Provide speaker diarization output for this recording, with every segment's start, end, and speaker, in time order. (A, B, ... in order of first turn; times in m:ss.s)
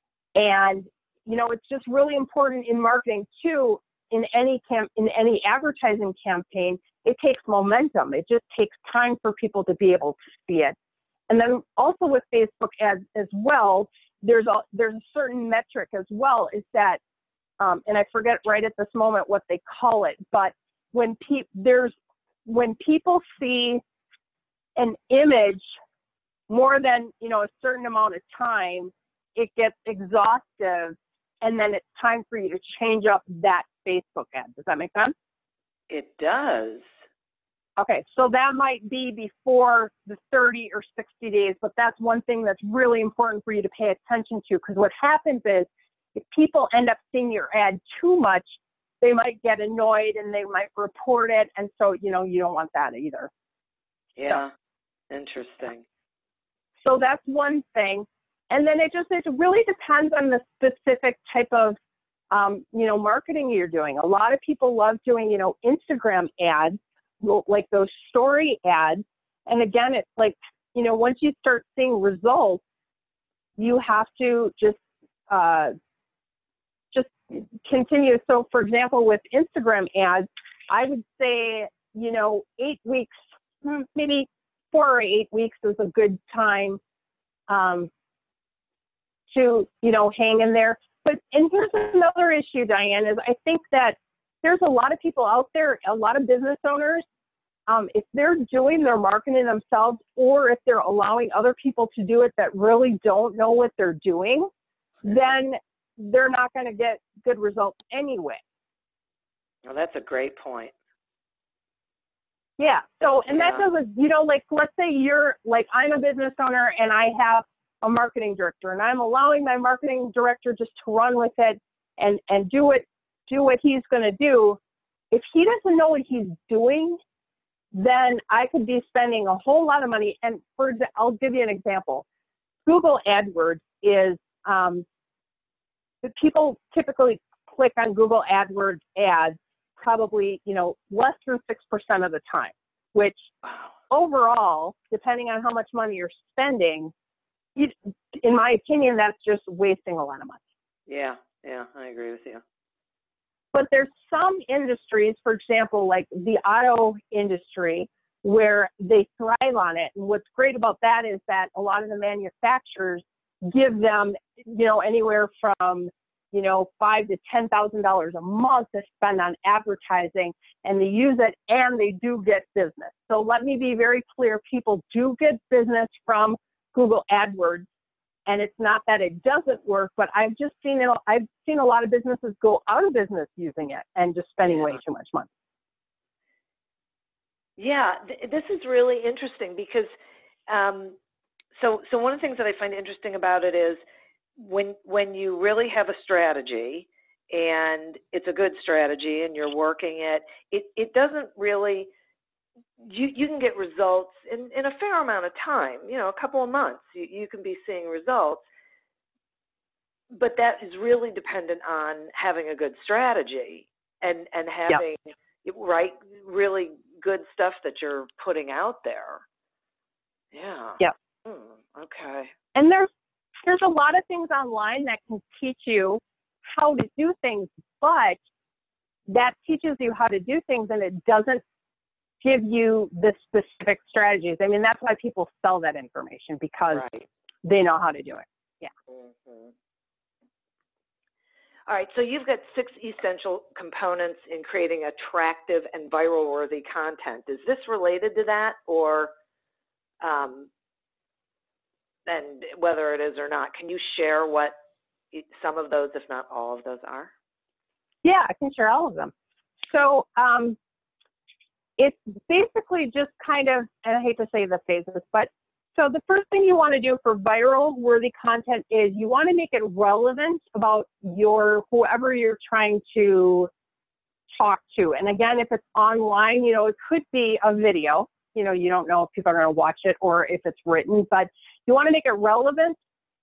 0:00.3-0:10.8 A
0:11.3-0:17.0 A
0:17.6-0:21.9 A
0:22.4-0:23.8 A
0:24.8-0:25.6 A
0:26.5-0:35.1 A
0:35.9-0:36.8 B
0:37.8-0:53.3 A
0:54.2-0:54.5 B
0:55.1-0:55.8 B
0:56.8-1:01.8 A
1:02.3-1:12.6 A
1:13.6-1:14.8 A
1:15.3-1:15.7 A
1:16.9-1:26.8 A
1:27.5-1:27.9 A
1:29.3-1:37.0 A
1:37.7-1:44.5 A
1:45.0-1:48.4 A
1:49.6-1:50.7 B
1:52.6-2:04.6 A
1:53.3-1:53.6 B
2:05.1-2:07.0 A
2:07.7-2:12.0 A
2:12.6-2:14.8 A
2:16.0-2:23.3 A
2:23.9-2:26.9 A
2:27.6-2:30.4 A
2:30.9-2:32.4 B
2:33.5-2:57.6 A
2:58.3-3:05.3 A
3:07.6-3:09.9 B
3:10.5-3:11.0 B
3:11.5-3:13.8 B
3:14.4-3:21.9 B
3:22.8-3:28.4 B
3:30.1-3:39.2 B
3:40.3-3:42.3 B
3:42.5-3:42.9 A
3:43.4-3:48.2 A
3:49.1-3:51.4 A
3:52.2-3:56.8 A
3:56.7-3:57.0 B
3:57.4-3:58.7 A
3:58.9-3:59.5 B
4:01.7-4:09.1 B
4:10.0-4:10.5 B
4:12.0-4:14.6 B
4:15.1-4:17.1 B
4:18.0-4:19.1 A
4:19.7-4:20.6 A
4:21.8-4:33.5 A
4:34.4-4:42.8 A